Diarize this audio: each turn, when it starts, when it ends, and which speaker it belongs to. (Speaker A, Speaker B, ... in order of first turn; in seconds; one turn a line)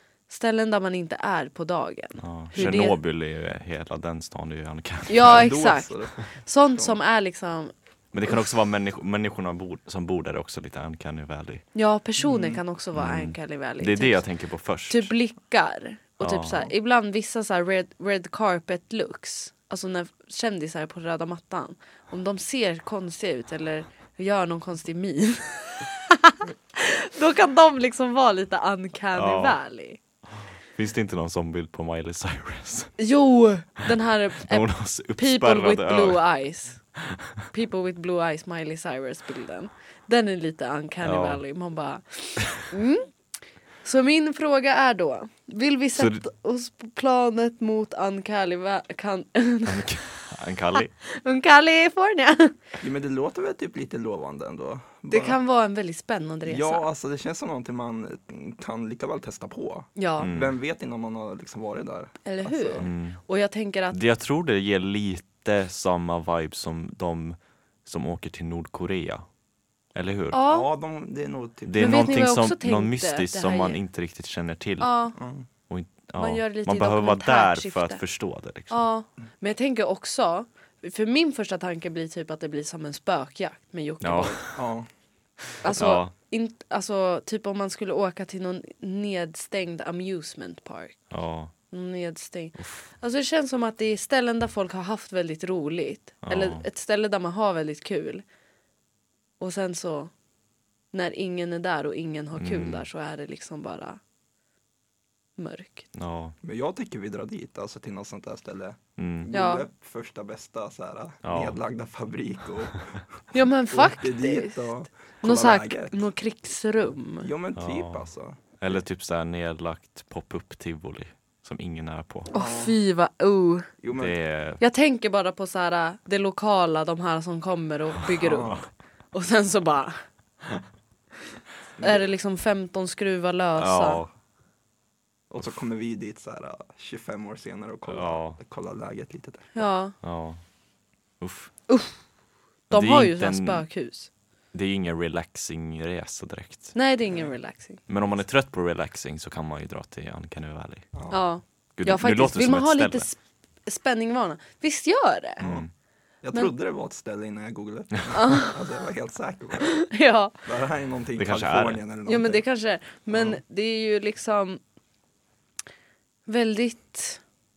Speaker A: 0.3-3.0
Speaker B: 2.2-5.4
Speaker A: 5.1-7.7
Speaker C: 5.2-7.0
Speaker B: 8.1-11.6
Speaker A: 11.7-14.2
Speaker C: 12.2-12.6
Speaker B: 12.9-15.1
Speaker A: 14.9-30.0
Speaker B: 16.2-16.7
Speaker B: 29.1-29.6
Speaker B: 30.7-33.0
Speaker A: 33.0-36.8
Speaker B: 34.5-36.2
Speaker A: 37.5-43.1
Speaker B: 41.0-41.4
Speaker A: 43.8-49.9
Speaker B: 46.0-46.2
Speaker B: 49.6-50.9
Speaker A: 51.0-52.5
Speaker C: 52.8-55.4
Speaker A: 55.1-56.8
Speaker C: 56.4-62.9
Speaker A: 60.0-60.3
Speaker B: 60.2-60.5
Speaker A: 62.2-64.0
Speaker B: 62.8-63.2
Speaker B: 63.9-69.2
Speaker B: 69.9-70.4
Speaker A: 70.3-70.7
Speaker C: 70.5-72.1
Speaker B: 71.7-74.9
Speaker A: 71.8-73.8
Speaker A: 74.8-75.2
Speaker C: 75.2-75.5
Speaker B: 75.7-78.8
Speaker A: 76.2-78.0
Speaker A: 78.7-84.4
Speaker B: 84.0-84.6
Speaker C: 84.5-84.9
Speaker A: 85.6-91.0
Speaker B: 85.6-86.1
Speaker B: 91.1-91.5
Speaker A: 91.7-98.2
Speaker B: 92.6-92.9
Speaker B: 96.2-96.6
Speaker A: 99.4-100.1
Speaker A: 100.9-104.0
Speaker B: 102.3-102.8
Speaker A: 105.4-105.9
Speaker B: 105.9-106.3
Speaker C: 106.4-112.9
Speaker B: 109.0-109.3
Speaker A: 109.3-109.7
Speaker B: 111.2-111.6
Speaker A: 113.3-114.7
Speaker C: 113.7-116.0
Speaker A: 115.2-117.3
Speaker C: 117.2-118.6
Speaker B: 117.5-118.1
Speaker B: 118.6-122.3
Speaker C: 122.3-122.8
Speaker A: 122.3-123.7
Speaker C: 123.8-124.1
Speaker B: 123.9-124.6
Speaker A: 124.6-130.0
Speaker C: 128.2-128.6
Speaker B: 128.3-128.6
Speaker C: 131.8-132.1
Speaker A: 131.8-134.0
Speaker B: 133.6-134.1
Speaker C: 135.3-139.6
Speaker B: 137.9-138.4
Speaker A: 139.5-139.9
Speaker B: 140.0-140.4
Speaker B: 141.2-141.5
Speaker A: 141.7-141.9
Speaker A: 142.7-144.1
Speaker B: 142.7-143.7
Speaker B: 144.5-146.7
Speaker A: 146.7-147.8
Speaker B: 147.9-150.9
Speaker A: 151.1-155.4
Speaker B: 151.8-153.1
Speaker B: 155.4-155.7
Speaker C: 156.2-159.8
Speaker A: 158.1-158.6
Speaker A: 159.6-160.3
Speaker C: 160.4-162.4
Speaker B: 161.2-161.8
Speaker A: 162.1-164.6
Speaker C: 163.1-163.4
Speaker A: 166.3-167.2